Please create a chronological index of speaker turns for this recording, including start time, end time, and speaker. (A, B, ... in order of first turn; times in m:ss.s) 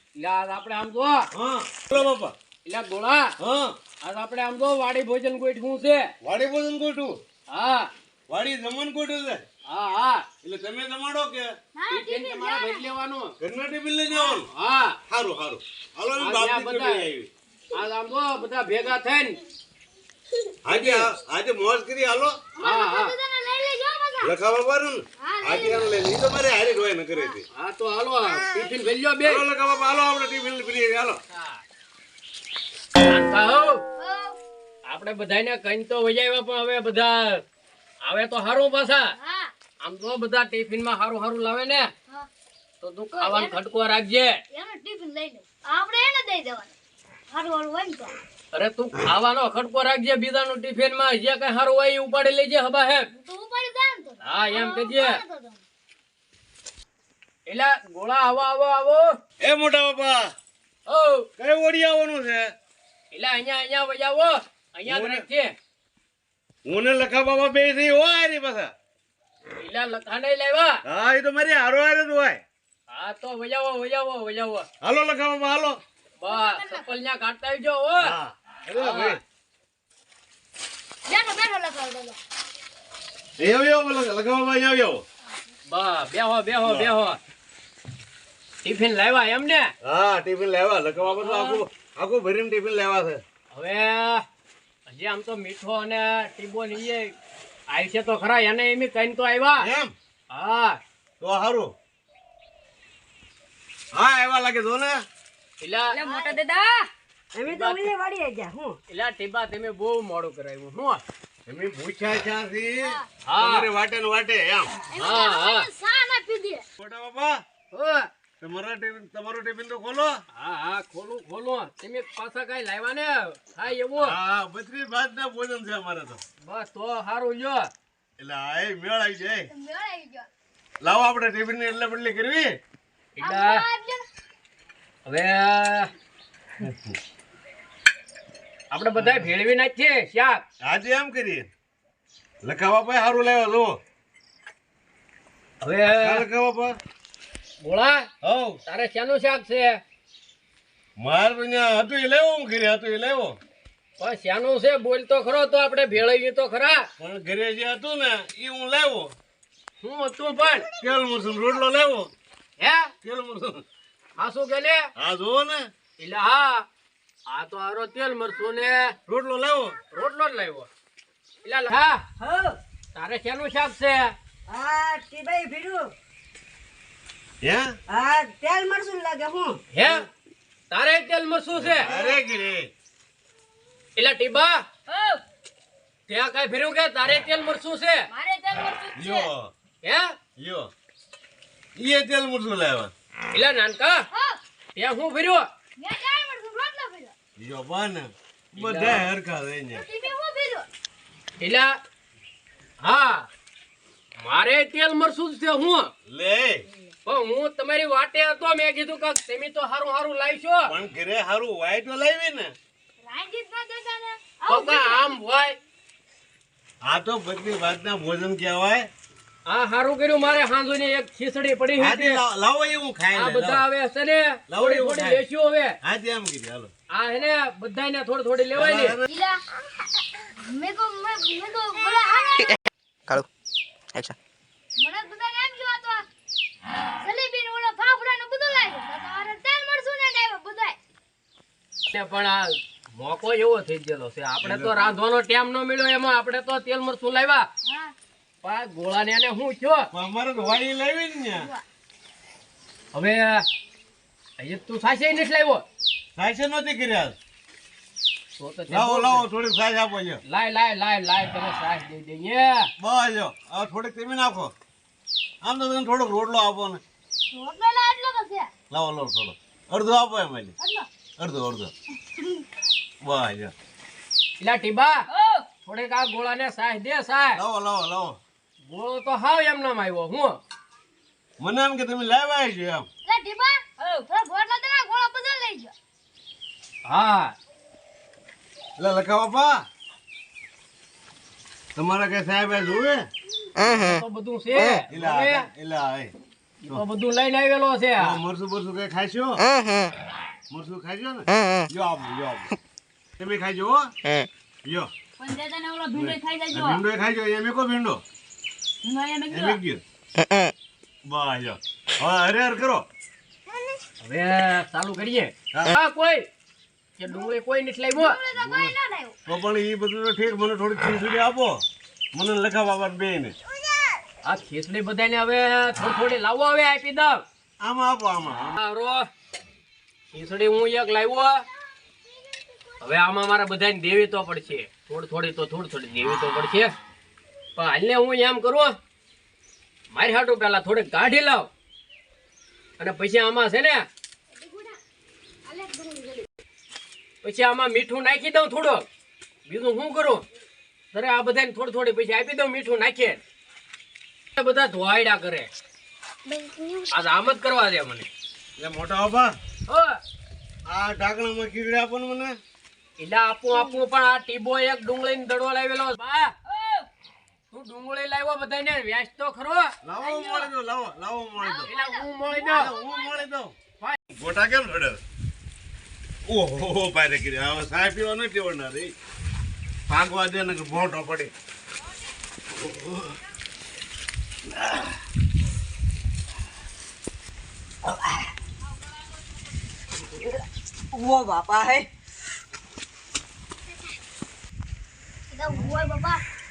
0:00.2-0:01.3 A
0:01.3-0:02.3 B
0:02.6-0:03.3 A
0:03.4-0:03.8 B
0:04.0-0:06.1 A
0:06.2-0:07.2 B
0:07.5-0:07.9 A
0:08.3-0:09.4 B
0:09.7-0:10.3 A
0:10.4-0:11.5 B
0:11.8-0:12.8 C
0:11.9-0:13.3 A
0:13.4-0:14.5 B
0:14.2-0:15.0 A
0:15.1-0:17.3 B
0:16.2-0:17.1 A
0:17.7-0:19.4 A
0:20.7-0:22.4 B
0:20.7-0:21.1 A
0:22.6-0:24.3 C
0:22.6-0:23.1 A
0:24.2-0:27.4 B
0:25.2-0:25.9 C
0:27.5-0:29.4 A
0:29.2-0:31.2 B
0:31.3-0:31.6 A
0:33.0-0:33.8 A
0:34.0-0:34.4 C
0:34.9-0:37.4 A
0:38.0-0:39.1 A
0:39.1-0:39.5 C
0:39.8-0:41.9 A
0:42.8-0:44.4 A
0:43.2-0:43.6 C
0:44.5-0:46.7 C
0:47.3-0:48.1 C
0:48.5-0:53.1 A
0:53.1-0:55.6 C
0:54.2-0:55.2 A
0:57.5-0:59.1 A
0:59.4-1:00.3 B
1:00.9-1:01.3 A
1:01.4-1:02.5 B
1:03.1-1:05.5 A
1:04.9-1:05.3 B
1:06.7-1:08.7 B
1:09.6-1:10.8 A
1:10.9-1:12.4 B
1:12.9-1:14.7 A
1:14.8-1:15.8 B
1:16.2-1:18.1 A
1:16.3-1:16.8 C
1:18.0-1:19.2 B
1:18.7-1:19.2 A
1:21.1-1:22.2 C
1:23.4-1:25.0 B
1:25.7-1:27.2 A
1:26.7-1:26.9 B
1:28.6-1:29.7 A
1:29.8-1:33.2 B
1:31.0-1:31.6 A
1:33.5-1:34.2 A
1:34.9-1:37.1 A
1:37.7-1:39.7 A
1:39.6-1:39.9 B
1:40.3-1:40.8 A
1:41.2-1:41.7 B
1:43.9-1:45.0 B
1:45.6-1:46.0 A
1:45.9-1:46.9 C
1:47.3-1:48.8 D
1:47.5-1:47.9 A
1:48.9-1:51.0 A
1:51.5-1:54.8 B
1:53.3-1:53.7 A
1:54.9-1:56.6 C
1:55.0-1:55.7 A
1:56.8-1:57.4 B
1:57.7-1:58.1 A
1:58.4-2:00.2 B
2:00.3-2:04.2 A
2:04.0-2:06.2 B
2:06.4-2:07.7 A
2:08.2-2:09.5 B
2:09.5-2:10.3 C
2:10.8-2:12.6 B
2:13.2-2:13.6 A
2:13.2-2:14.0 C
2:15.1-2:15.9 A
2:16.6-2:17.0 B
2:18.7-2:20.4 A
2:19.0-2:19.3 B
2:20.6-2:21.5 B
2:22.4-2:23.8 B
2:25.6-2:26.3 A
2:26.0-2:26.8 B
2:27.6-2:28.1 A
2:28.2-2:28.6 B
2:28.7-2:29.8 A
2:31.0-2:33.4 B
2:34.0-2:36.9 A
2:37.0-2:39.1 B
2:39.8-2:40.7 A
2:40.8-2:42.1 B
2:42.6-2:42.9 A
2:43.0-2:43.6 B
2:44.2-2:44.8 A
2:45.0-2:45.7 B
2:46.0-2:46.7 A
2:47.3-2:48.9 A
2:49.1-2:49.8 B
2:49.9-2:50.7 A
2:51.4-2:52.0 A
2:52.2-2:52.6 D
2:53.0-2:54.1 A
2:54.5-2:55.8 D
2:57.4-2:57.7 B
2:57.9-2:59.6 D
2:59.7-3:00.1 A
3:00.7-3:01.9 A
3:01.6-3:02.7 B
3:01.9-3:02.2 D
3:04.0-3:04.6 A
3:04.9-3:05.2 C
3:06.1-3:08.1 A
3:08.1-3:09.3 C
3:08.9-3:09.5 B
3:09.8-3:10.1 A
3:10.4-3:10.7 B
3:11.8-3:12.9 B
3:13.3-3:14.1 A
3:14.1-3:14.4 C
3:14.8-3:15.5 A
3:15.8-3:17.1 C
3:17.4-3:19.9 B
3:18.6-3:19.1 A
3:19.7-3:20.7 C
3:21.4-3:21.7 A
3:22.8-3:23.3 A
3:24.2-3:25.9 A
3:26.1-3:26.7 B
3:27.1-3:30.7 A
3:30.7-3:32.5 B
3:33.0-3:35.2 C
3:34.5-3:35.6 A
3:36.8-3:38.9 B
3:39.5-3:42.2 A
3:41.8-3:43.6 B
3:43.1-3:45.8 A
3:44.5-3:45.2 B
3:45.8-3:46.7 B
3:46.9-3:49.0 A
3:48.6-3:49.1 B
3:49.1-3:49.4 C
3:50.4-3:52.6 C
3:54.8-3:56.0 C
3:57.0-4:00.8 C
4:01.9-4:07.5 A
4:04.4-4:04.8 B
4:07.6-4:07.9 C
4:08.4-4:09.9 A
4:09.9-4:11.5 B
4:11.4-4:11.6 C
4:12.9-4:13.4 A
4:14.4-4:15.6 A
4:16.2-4:17.2 B
4:18.4-4:19.2 A
4:18.7-4:20.2 B
4:20.3-4:22.7 A
4:22.8-4:24.5 B
4:25.4-4:26.8 B
4:27.3-4:28.5 C
4:28.7-4:30.6 B
4:30.6-4:30.9 C
4:31.2-4:31.7 B
4:32.1-4:32.4 C
4:33.0-4:33.5 B
4:34.4-4:35.0 A
4:35.1-4:35.5 C
4:35.6-4:37.4 A
4:37.4-4:38.2 B
4:38.7-4:40.4 A
4:41.4-4:42.9 B
4:43.0-4:45.7 C
4:46.9-4:47.3 A
4:48.8-4:49.6 B
4:51.8-4:53.1 B
4:53.6-4:55.5 A
4:54.9-4:56.1 B
4:56.6-4:58.2 A
4:58.0-4:59.5 B
5:00.5-5:02.6 B
5:03.2-5:03.9 B
5:04.7-5:04.9 B
5:05.2-5:06.8 C
5:05.9-5:08.0 B
5:08.8-5:09.6 C
5:09.3-5:09.8 B
5:11.1-5:12.8 B
5:14.0-5:16.3 A
5:17.0-5:18.2 A
5:17.0-5:17.3 C
5:17.9-5:19.2 C
5:18.4-5:18.7 B
5:19.3-5:21.6 B
5:22.1-5:23.4 B
5:24.2-5:27.2 A
5:27.6-5:28.6 B
5:28.6-5:29.0 A
5:30.1-5:31.4 A
5:32.3-5:32.6 C
5:32.8-5:36.7 A
5:37.6-5:38.8 A
5:39.9-5:41.5 A
5:42.8-5:43.9 A
5:44.3-5:44.8 C
5:45.5-5:46.3 C
5:47.2-5:48.9 A
5:49.5-5:50.2 A
5:50.9-5:53.2 A
5:54.4-5:55.5 A
5:56.3-5:56.9 C
5:56.9-5:58.1 A
5:58.6-5:59.4 B
5:59.7-6:00.0 A
6:00.7-6:02.4 B
6:03.0-6:06.3 A
6:03.5-6:03.8 C
6:07.5-6:09.7 A
6:09.8-6:11.7 B
6:10.0-6:10.5 C
6:11.4-6:13.2 C
6:11.7-6:12.7 A
6:12.5-6:13.6 B
6:14.1-6:15.0 B
6:16.3-6:18.9 B
6:19.9-6:21.3 B
6:27.8-6:28.3 D
6:30.0-6:30.4 D
6:30.9-6:31.9 D
6:35.3-6:36.2 C